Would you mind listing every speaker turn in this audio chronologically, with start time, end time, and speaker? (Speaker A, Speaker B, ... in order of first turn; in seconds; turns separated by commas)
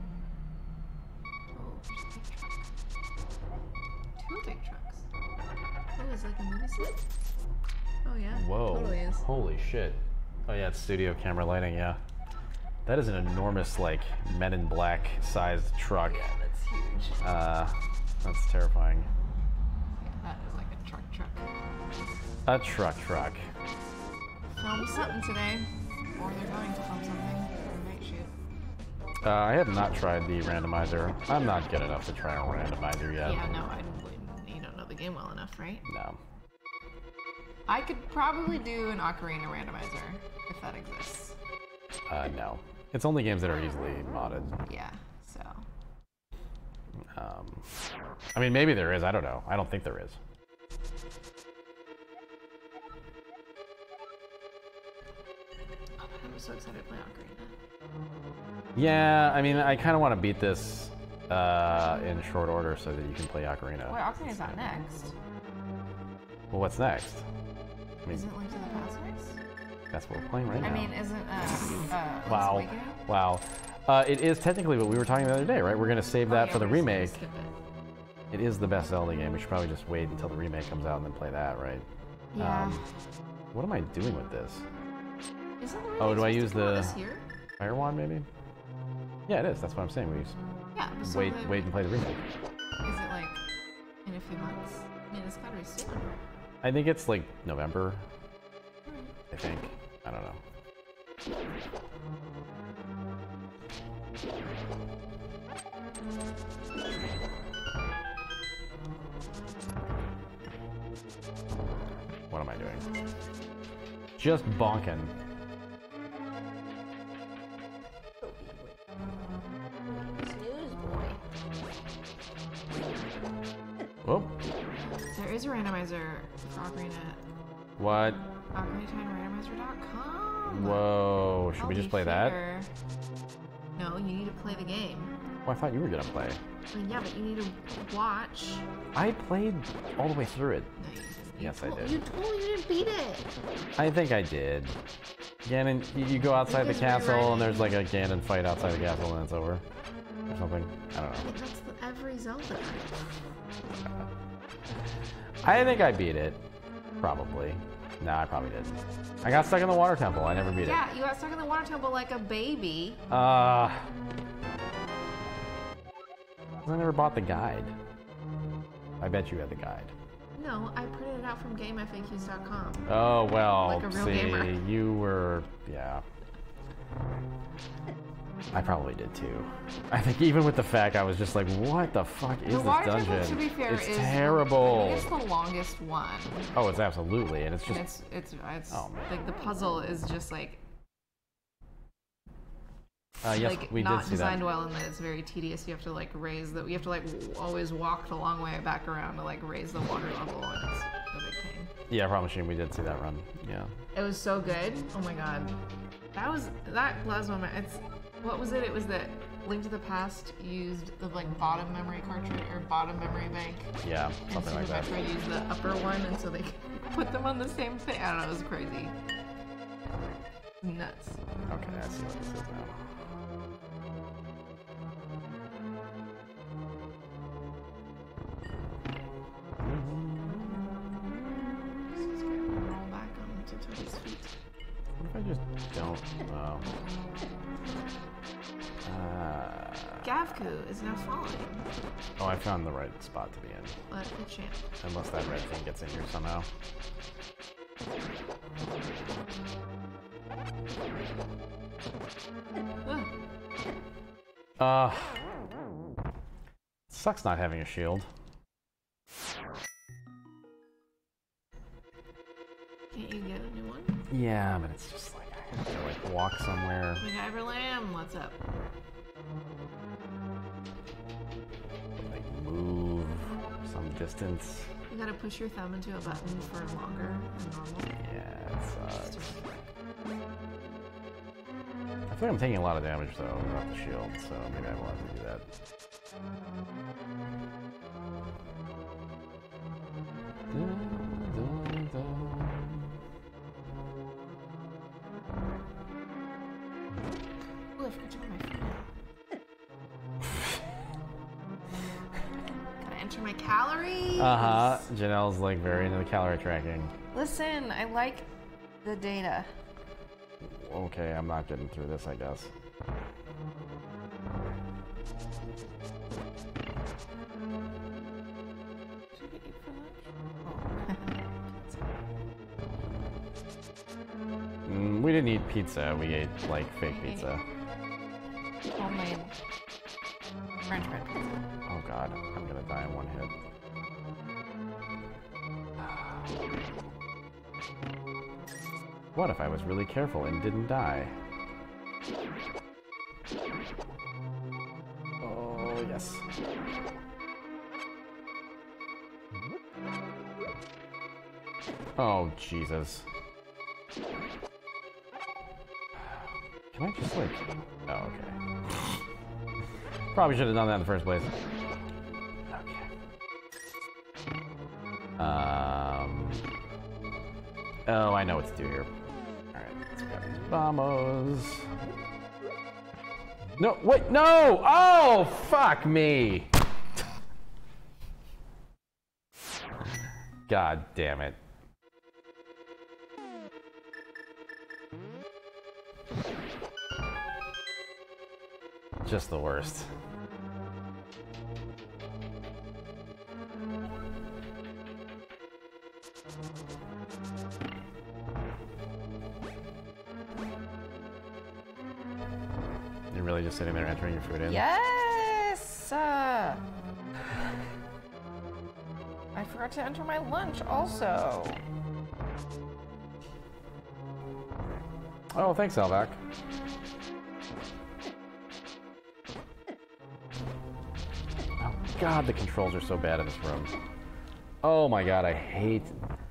Speaker A: 1.5-2.6, Speaker A: 4.2-5.1, Speaker A: 6.0-7.1, Speaker A: 8.0-9.2, Speaker B: 8.3-12.0, Speaker B: 12.8-16.3, Speaker A: 16.0-17.2, Speaker B: 17.2-19.1, Speaker A: 20.0-21.5, Speaker B: 22.5-23.5, Speaker A: 24.6-28.4, Speaker B: 29.2-33.7, Speaker A: 33.2-35.9, Speaker B: 35.9-36.2, Speaker A: 37.7-41.4, Speaker B: 42.1-44.6, Speaker A: 44.7-45.6, Speaker B: 47.1-47.7, Speaker B: 48.4-50.2, Speaker A: 56.0-57.5, Speaker B: 58.8-64.5, Speaker A: 63.9-65.2, Speaker B: 66.5-67.3, Speaker A: 68.1-69.4, Speaker B: 69.9-71.0, Speaker A: 70.6-73.0, Speaker B: 72.3-77.2, Speaker A: 76.3-77.5, Speaker B: 78.3-82.8, Speaker A: 82.3-82.8, Speaker B: 83.5-84.7, Speaker A: 85.6-87.2, Speaker B: 86.0-87.0, Speaker B: 87.6-88.3, Speaker B: 89.3-90.4, Speaker A: 90.8-91.7, Speaker B: 91.0-92.2, Speaker A: 92.8-93.4, Speaker A: 94.0-96.1, Speaker B: 96.6-98.0, Speaker A: 98.9-99.1, Speaker B: 99.3-100.4, Speaker B: 112.3-112.9, Speaker B: 114.2-115.1, Speaker A: 118.2-118.7, Speaker A: 119.9-121.2, Speaker B: 124.0-124.4, Speaker A: 124.9-127.2, Speaker B: 127.8-128.2, Speaker A: 128.5-130.9, Speaker B: 130.5-132.4, Speaker A: 131.6-132.7, Speaker A: 133.8-135.1, Speaker B: 135.5-136.4, Speaker A: 136.7-138.7, Speaker B: 138.9-140.7, Speaker A: 140.8-143.3, Speaker B: 141.4-142.0, Speaker B: 143.8-144.8, Speaker B: 145.4-149.7, Speaker A: 146.5-147.7, Speaker B: 150.3-151.3, Speaker A: 151.2-152.9, Speaker B: 155.4-156.4, Speaker B: 157.0-160.8, Speaker A: 160.6-163.1, Speaker B: 163.1-163.9, Speaker B: 166.7-167.8, Speaker B: 169.0-169.9, Speaker A: 170.4-172.9, Speaker B: 172.9-176.0, Speaker A: 173.6-174.6, Speaker B: 178.5-185.1, Speaker A: 182.5-186.5, Speaker B: 186.5-187.8, Speaker A: 187.7-190.6, Speaker B: 188.7-189.1, Speaker B: 193.2-194.4, Speaker A: 193.3-201.7, Speaker B: 201.9-203.7, Speaker A: 203.9-205.6, Speaker A: 206.2-213.8, Speaker B: 213.8-214.9, Speaker A: 214.3-218.9, Speaker A: 220.6-221.2, Speaker B: 221.5-222.8, Speaker B: 229.6-231.8, Speaker A: 231.9-234.3, Speaker B: 235.0-236.7, Speaker B: 238.8-240.1, Speaker A: 240.0-241.7, Speaker B: 242.2-243.8, Speaker A: 243.9-244.7, Speaker B: 244.8-246.5, Speaker A: 252.8-253.1, Speaker B: 254.6-255.2, Speaker B: 256.9-258.1, Speaker A: 262.9-264.0, Speaker B: 264.1-267.0, Speaker A: 267.0-268.4, Speaker B: 272.0-274.7, Speaker A: 274.9-278.0, Speaker B: 278.0-279.4, Speaker A: 279.1-279.6, Speaker B: 282.1-285.5, Speaker B: 290.5-292.9, Speaker A: 297.8-298.9, Speaker A: 302.8-304.9, Speaker B: 304.2-306.9, Speaker A: 307.1-308.3, Speaker A: 308.8-309.5, Speaker B: 310.4-312.5, Speaker A: 319.1-322.0, Speaker B: 324.7-327.4, Speaker A: 326.9-327.3, Speaker A: 328.8-329.3, Speaker A: 330.7-331.4, Speaker B: 331.7-333.3, Speaker B: 335.8-336.1, Speaker B: 339.1-341.1, Speaker B: 345.2-346.3, Speaker B: 352.0-353.1, Speaker B: 356.0-359.0, Speaker B: 360.1-361.3, Speaker B: 362.5-362.9, Speaker B: 365.2-366.4, Speaker B: 367.9-368.9, Speaker B: 369.5-371.7, Speaker B: 373.6-376.6, Speaker B: 380.5-381.4, Speaker B: 389.1-389.9, Speaker B: 403.1-404.6, Speaker A: 404.4-406.6, Speaker A: 409.4-411.6, Speaker B: 415.3-416.2, Speaker B: 421.6-423.7, Speaker B: 424.6-425.9